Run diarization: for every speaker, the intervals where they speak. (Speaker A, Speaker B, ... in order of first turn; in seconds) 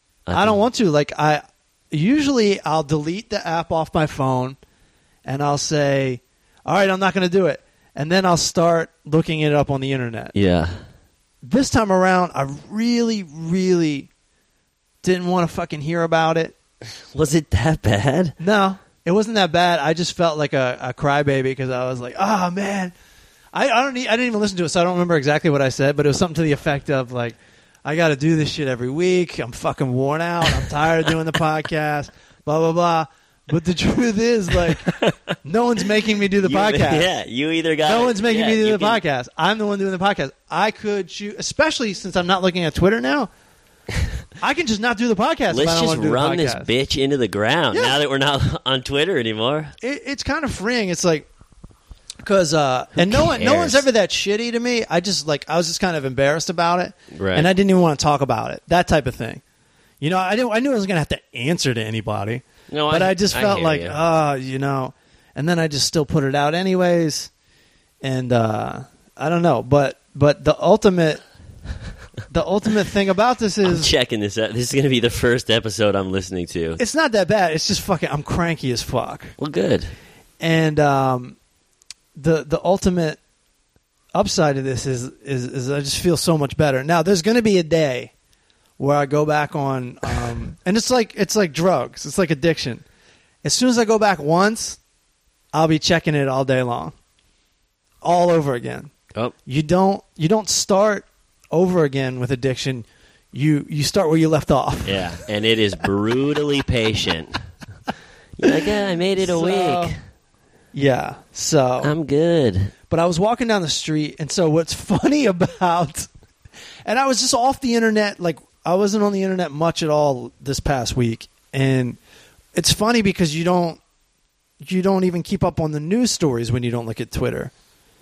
Speaker A: 0.2-0.6, 10.3-10.8, 17.1-18.4, 34.6-35.1, 36.4-39.0, 45.5-49.7, 53.0-53.9, 57.1-57.5, 62.7-64.0, 73.6-76.8, 79.4-79.9, 104.8-107.4, 108.4-110.0, 111.8-112.7
Speaker B: 0.3-4.6, 5.2-10.3, 11.4-14.1, 15.0-16.5, 18.4-22.9, 23.5-34.9, 35.4-37.1, 37.8-43.3, 44.4-46.7, 47.7-48.0, 49.8-51.3, 52.2-59.4, 60.0-67.3, 68.0-71.2, 72.3-73.9, 76.8-79.3, 80.4-81.4, 82.2-83.2, 84.1-88.1, 88.8-92.8, 93.4-94.8, 95.5-96.9, 98.0-98.9, 99.5-105.2, 109.2-109.9, 110.7-111.9, 112.9-116.1, 116.8-122.0, 122.5-123.8, 124.6-127.5